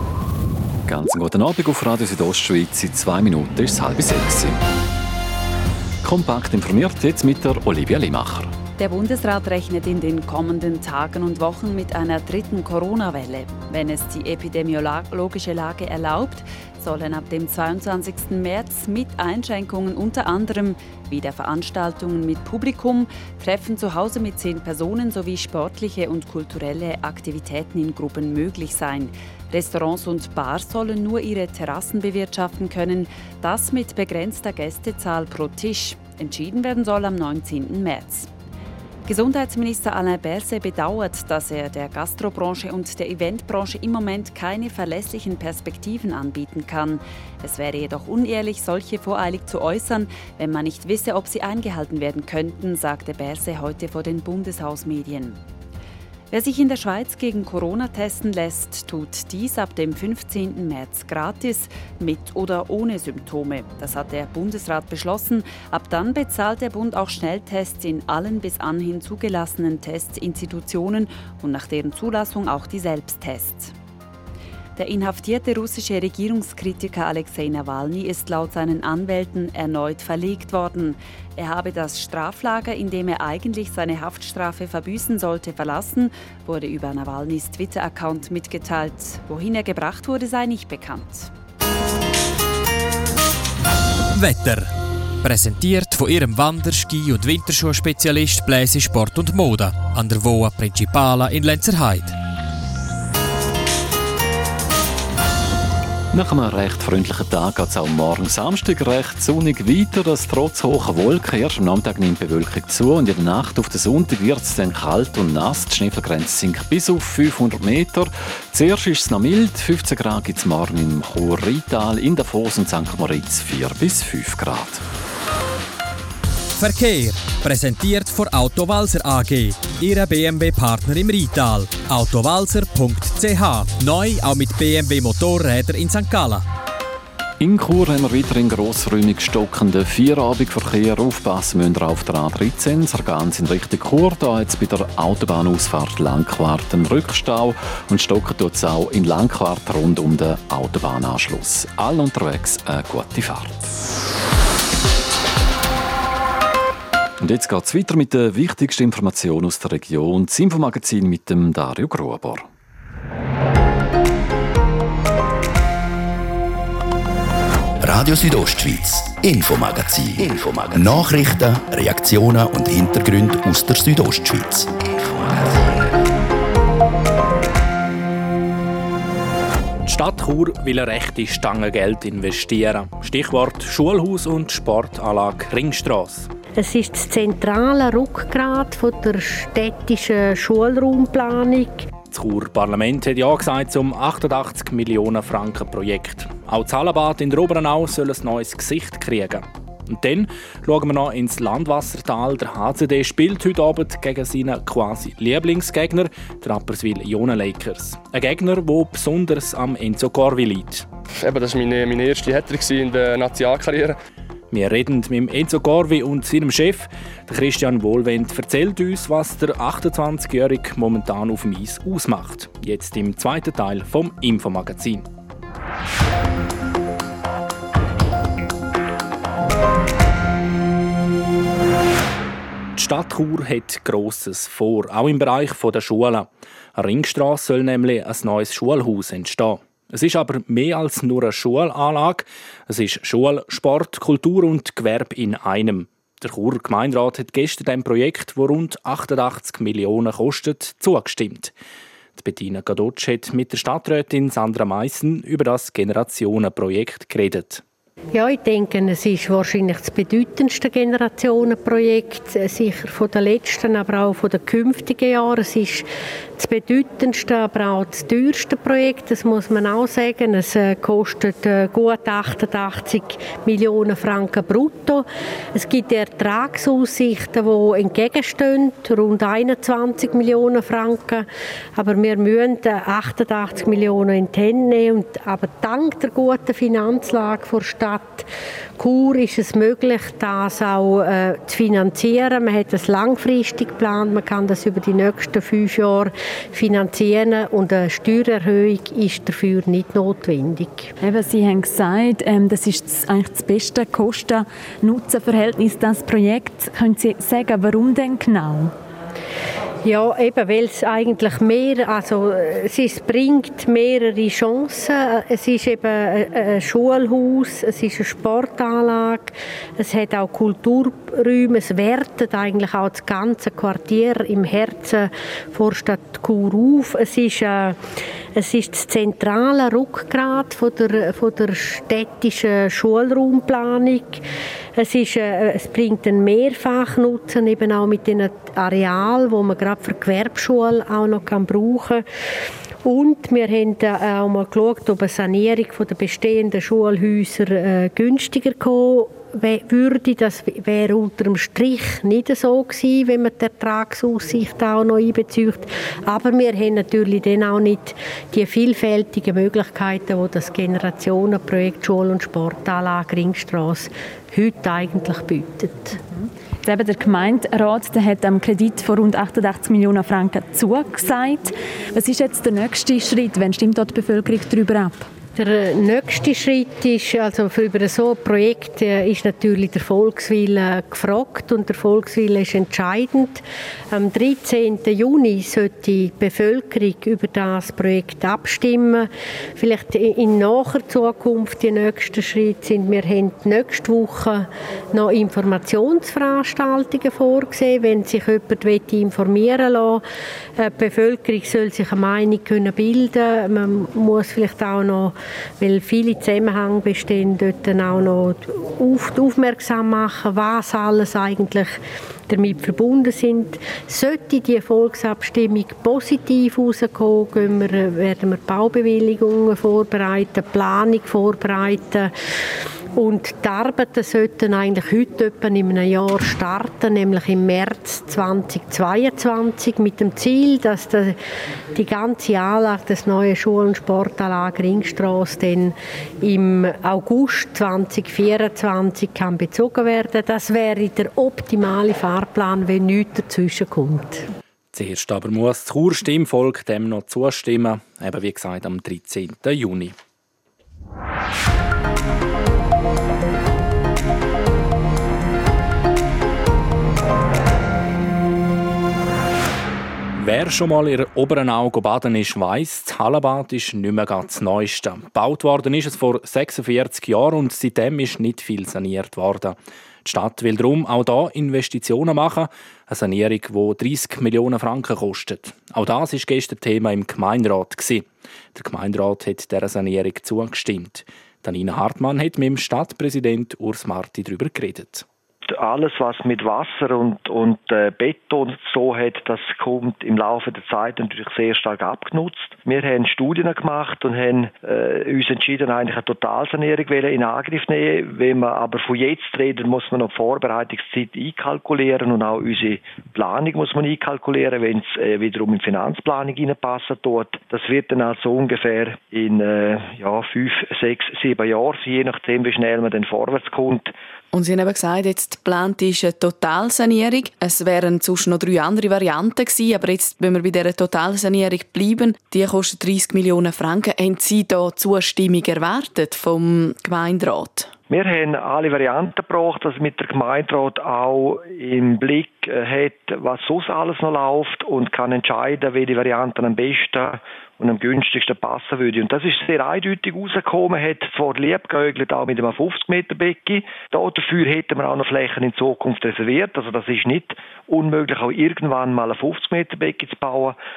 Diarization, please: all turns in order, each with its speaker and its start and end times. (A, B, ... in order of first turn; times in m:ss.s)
0:00.8-0:04.6 A
0:06.0-0:08.5 A
0:08.8-0:38.3 B
0:39.0-0:55.4 B
0:56.3-1:13.7 B
1:14.8-1:31.3 B
1:34.1-1:42.2 C
1:46.1-2:04.8 A
2:06.6-2:16.4 C
2:17.4-2:33.7 A
2:37.2-2:42.5 A
2:47.8-2:55.9 D
2:59.8-3:06.3 E
3:06.6-3:11.9 F
3:12.1-3:30.9 E
3:31.2-3:34.0 G
3:34.5-3:45.0 E
3:52.8-4:11.5 E
4:12.2-4:17.6 E
4:18.1-5:00.9 F
5:01.0-5:08.7 H
5:09.8-5:27.8 F
5:28.4-5:34.2 F
5:34.8-5:42.0 F
5:42.8-6:06.0 F
6:06.6-6:15.1 H
6:15.4-6:40.0 F
6:40.6-7:02.1 F
7:02.9-7:11.2 F
7:11.7-7:24.2 F
7:24.7-7:29.9 E
7:40.2-8:05.0 E
8:05.5-8:33.9 I
8:34.3-8:47.7 J
8:47.9-9:10.6 I